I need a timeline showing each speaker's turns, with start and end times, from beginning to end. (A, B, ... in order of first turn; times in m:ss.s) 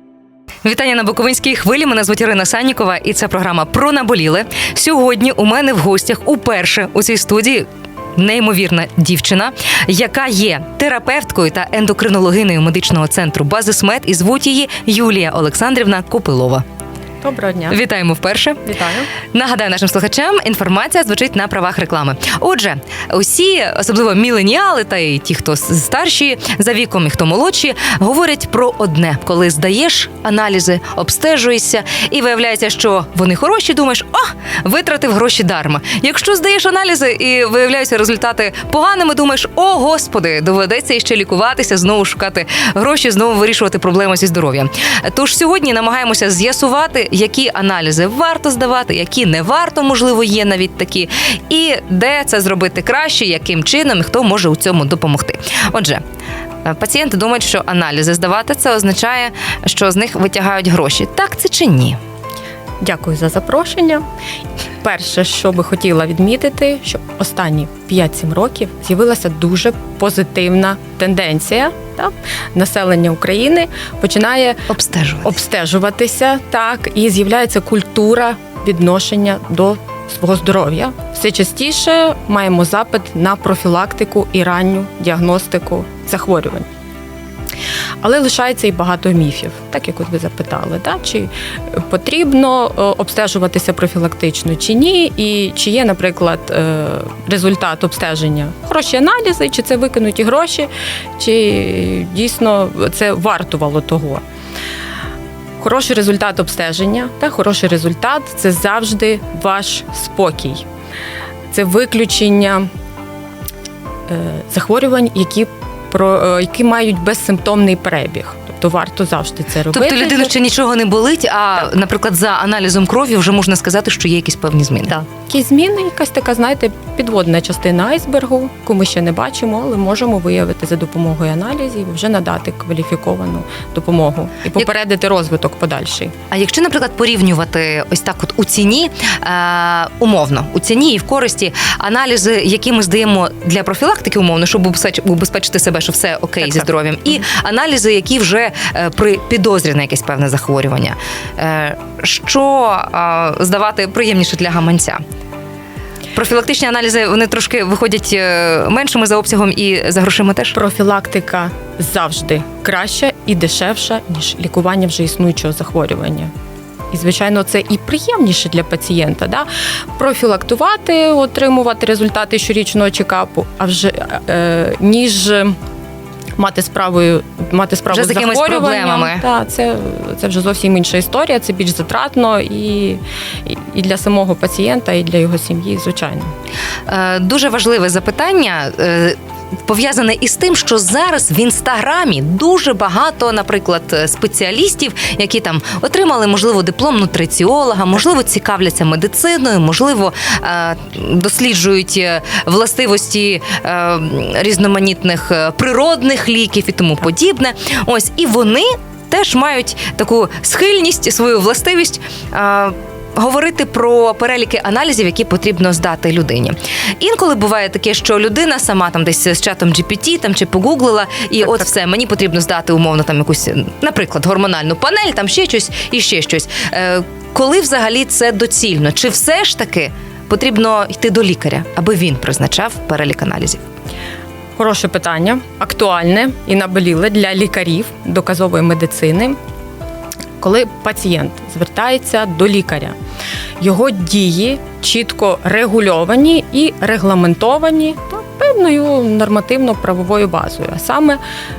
0:00.6-0:07.6 A
0:08.2-0:16.6 A
0:17.2-0:17.8 B
0:17.7-0:18.6 A
0:18.6-0:19.1 B
0:19.3-0:56.0 A
0:56.6-1:02.0 A
1:02.8-1:04.0 B
1:04.8-1:14.7 B
1:14.7-1:15.3 A
1:15.2-1:26.7 B
1:28.0-1:44.2 B
1:45.6-1:50.6 B
1:51.5-1:52.7 B
1:54.1-2:00.3 B
1:59.7-2:05.0 A
2:04.9-2:16.1 B
2:16.3-2:35.0 A
2:36.1-2:40.6 A
2:40.5-2:46.3 B
2:46.9-2:55.6 B
2:56.4-3:06.3 B
2:57.9-2:59.2 A
3:06.9-3:53.6 A
3:54.6-3:59.4 B
4:00.4-4:03.0 B
4:03.6-4:11.2 B